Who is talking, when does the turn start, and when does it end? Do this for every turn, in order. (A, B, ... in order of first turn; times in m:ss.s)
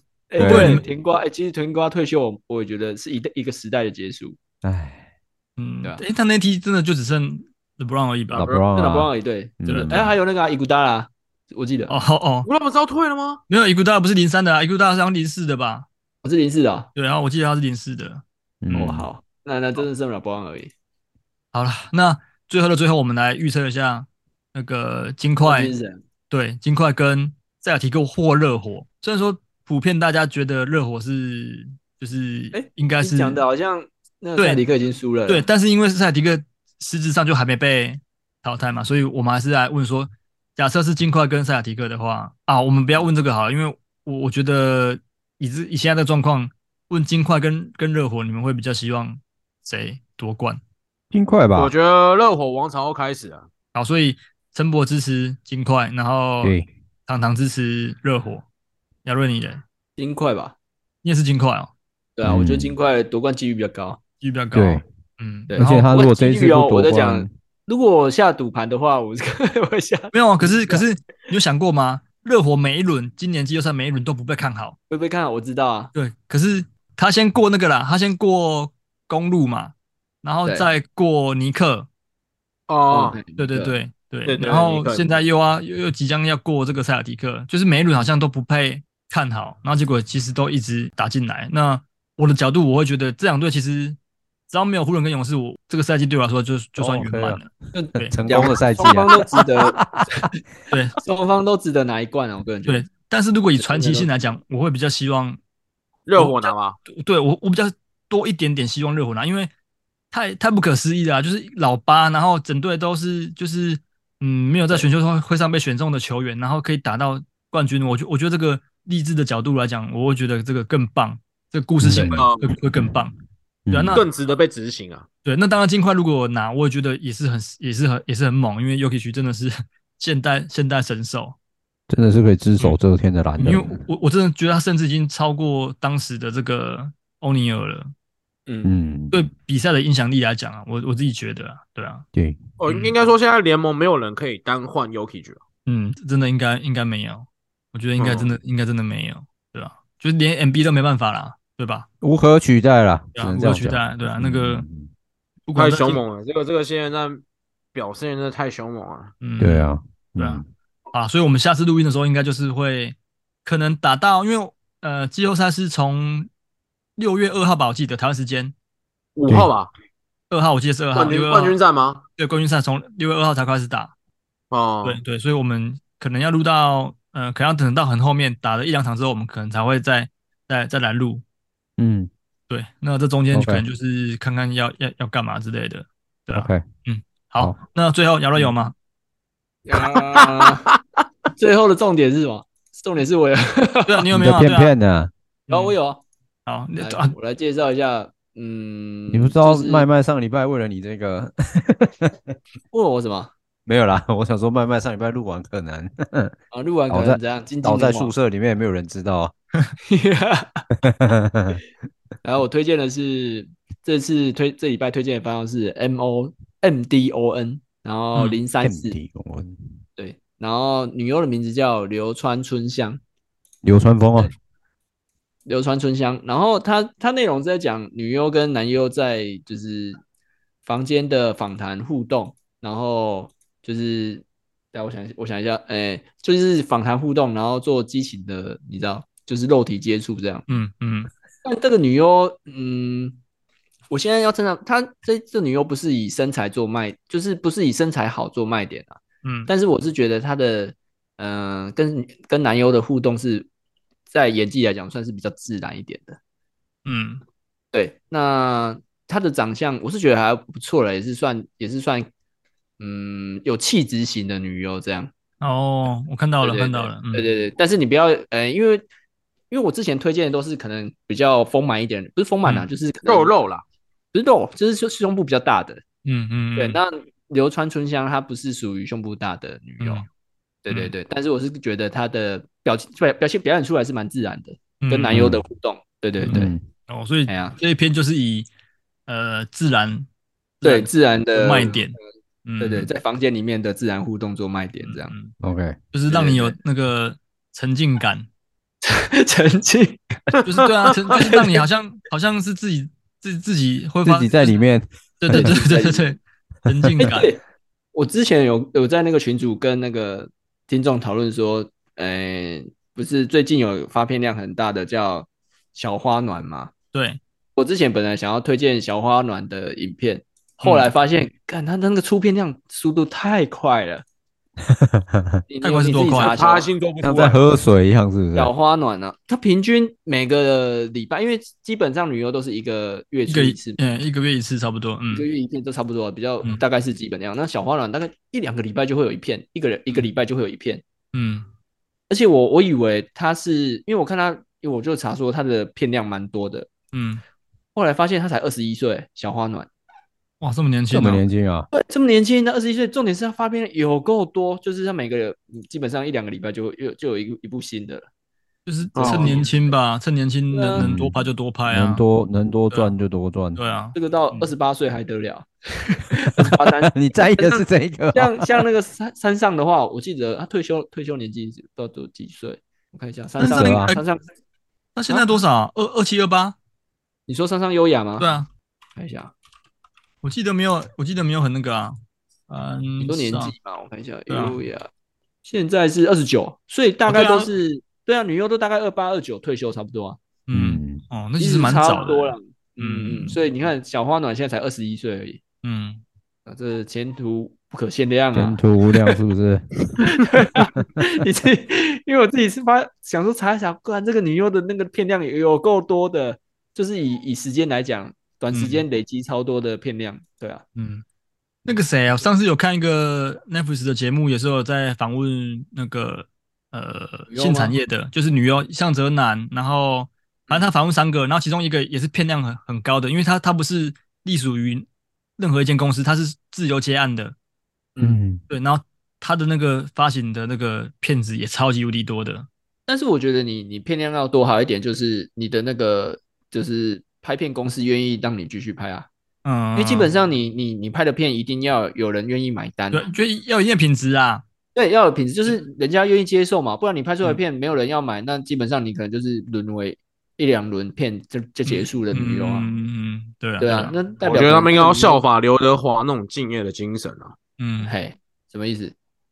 0:00.3-0:04.4 A
0:00.4-0:00.8 B
0:00.4-0:00.8 C
0:04.6-0:05.0 B
0:05.6-0:08.5 C
0:08.3-0:10.1 B
0:08.7-0:11.9 A
0:09.7-0:09.9 C
0:11.9-0:12.5 C
0:12.4-0:13.4 D
0:13.5-0:15.9 C
0:16.2-0:16.9 A
0:17.0-0:18.2 C
0:18.6-0:19.1 B
0:18.7-0:20.7 A
0:21.5-0:25.7 C
0:25.4-0:26.0 A
0:26.3-0:33.4 C
0:32.5-0:35.4 A
0:34.4-0:34.6 C
0:35.3-0:50.6 C
0:51.1-0:51.7 B
0:51.5-0:53.5 D
0:53.7-0:56.6 C
0:56.4-0:56.7 B
0:57.1-0:58.4 C
0:59.0-0:59.6 C
1:00.0-1:00.5 A
1:01.0-1:01.7 C
1:02.2-1:04.0 A
1:02.2-1:02.8 B
1:04.2-1:05.9 C
1:04.5-1:04.8 B
1:05.5-1:10.8 A
1:05.5-1:07.3 B
1:10.1-1:14.8 C
1:14.9-1:15.9 A
1:15.9-1:21.9 C
1:22.7-1:23.2 D
1:22.9-1:23.7 A
1:23.4-1:34.0 C
1:24.3-1:25.0 D
1:34.5-1:38.2 C
1:36.8-1:37.4 B
1:37.7-1:40.4 A
1:38.1-1:40.2 B
1:40.7-1:41.0 C
1:41.0-1:42.8 A
1:42.6-1:45.4 C
1:43.6-1:44.3 A
1:46.0-1:46.8 D
1:46.2-1:49.5 C
1:50.1-2:03.1 C
2:01.8-2:03.0 B
2:02.0-2:02.5 D
2:03.7-2:04.0 B
2:03.7-2:04.1 C
2:03.9-2:05.0 D
2:05.2-2:11.4 C
2:11.9-2:13.8 B
2:13.4-2:17.9 C
2:18.5-2:18.7 A
2:18.6-2:19.3 B
2:19.1-2:22.0 C
2:22.1-2:22.4 B
2:22.6-2:25.4 D
2:22.7-2:22.9 C
2:25.6-2:31.9 C
2:28.0-2:28.3 D
2:32.0-2:34.9 B
2:33.1-2:34.6 C
2:35.5-2:36.0 C
2:35.5-2:37.2 D
2:37.7-2:39.1 D
2:39.2-2:39.6 C
2:39.4-2:40.4 B
2:40.9-2:46.3 C
2:47.0-2:48.5 C
2:49.2-2:49.7 D
2:50.3-2:51.6 C
2:50.9-2:52.0 D
2:52.2-2:53.9 C
2:54.5-2:55.0 D
2:54.8-3:01.2 C
3:01.8-3:02.1 B
3:02.5-3:08.7 C
3:03.3-3:03.6 B
3:06.3-3:06.6 B
3:09.6-3:10.7 A
3:11.4-3:14.1 A
3:13.9-3:14.7 C
3:14.1-3:15.1 B
3:15.5-3:15.8 C
3:15.5-3:16.0 A
3:16.4-3:17.1 C
3:16.8-3:19.9 A
3:19.1-3:22.3 B
3:22.7-3:23.3 A
3:23.6-3:26.3 B
3:26.5-3:28.1 A
3:26.9-3:29.3 B
3:29.8-3:30.7 A
3:30.8-3:31.6 B
3:32.2-3:39.0 A
3:38.6-3:39.8 B
3:40.0-3:43.0 A
3:43.6-3:44.3 B
3:45.5-3:50.0 A
3:50.6-4:00.4 A
4:00.5-4:01.1 C
4:01.4-4:03.2 A
4:03.9-4:13.5 A
4:09.2-4:09.5 C
4:14.1-4:16.2 A
4:16.8-4:17.2 C
4:17.7-4:22.1 A
4:22.8-4:25.1 A
4:25.4-4:27.2 C
4:26.4-4:28.8 A
4:29.5-4:33.3 A
4:33.0-4:33.6 D
4:34.1-4:35.8 A
4:36.0-4:36.8 C
4:36.6-4:40.0 A
4:40.6-4:46.5 A
4:44.8-4:45.2 C
4:45.1-4:45.4 B
4:46.2-4:48.5 C
4:46.3-4:46.6 B
4:47.3-4:47.6 A
4:49.1-4:50.1 C
4:50.6-4:52.9 C
4:50.6-4:51.9 A
4:52.6-4:55.1 A
4:54.8-4:55.3 C
4:55.4-4:55.8 B
4:55.9-4:58.3 C
4:56.1-4:56.6 A
4:58.8-5:00.4 A
5:00.4-5:04.6 C
5:01.1-5:01.6 A
5:04.0-5:05.6 B
5:05.2-5:07.3 C
5:05.3-5:06.1 A
5:06.8-5:07.1 B
5:07.0-5:07.4 A
5:07.9-5:16.7 A
5:16.9-5:17.2 C
5:17.6-5:24.0 A
5:20.6-5:20.9 C
5:24.7-5:25.4 B
5:25.5-5:26.7 A
5:25.6-5:26.4 C
5:26.1-5:27.6 D
5:27.0-5:28.5 B
5:28.3-5:33.8 A
5:33.3-5:35.3 C
5:35.1-5:40.8 A
5:41.1-5:41.4 C
5:42.1-5:46.7 A
5:46.9-5:47.2 C
5:47.7-5:49.7 A
5:50.4-5:51.2 C
5:50.9-5:51.7 B
5:51.7-5:58.1 A
5:58.6-6:02.0 C
5:59.0-5:59.5 D
5:59.0-5:59.5 A
6:00.5-6:00.9 A
6:00.8-6:01.1 B
6:01.7-6:03.6 B
6:03.6-6:04.5 C
6:03.9-6:14.2 A
6:06.4-6:08.6 B
6:13.4-6:14.0 C
6:13.5-6:13.9 B
6:15.0-6:16.6 C
6:15.1-6:15.4 A
6:17.3-6:18.2 A
6:18.2-6:18.5 C
6:19.0-6:19.3 A
6:20.2-6:22.0 C
6:22.5-6:23.5 C
6:23.0-6:24.9 A
6:24.3-6:24.6 C
6:25.4-6:30.2 A
6:27.1-6:27.5 C
6:30.5-6:33.4 C
6:30.5-6:31.0 B
6:31.4-6:35.4 A
6:35.6-6:36.0 C
6:36.4-6:39.2 A
6:38.3-6:40.8 B
6:40.0-6:50.6 A
6:48.5-6:48.8 C
6:50.8-6:51.0 C
6:51.6-7:04.8 C
6:57.3-6:57.7 A
7:05.4-7:07.3 C
7:08.0-7:08.4 B
7:08.5-7:12.5 C
7:12.9-7:19.1 A
7:19.4-7:20.1 C
7:19.8-7:23.0 A
7:22.9-7:24.4 C
7:24.7-7:32.7 A
7:31.6-7:33.9 C
7:33.6-7:35.2 A
7:34.2-7:37.3 D
7:37.6-7:37.9 C
7:37.8-7:38.9 A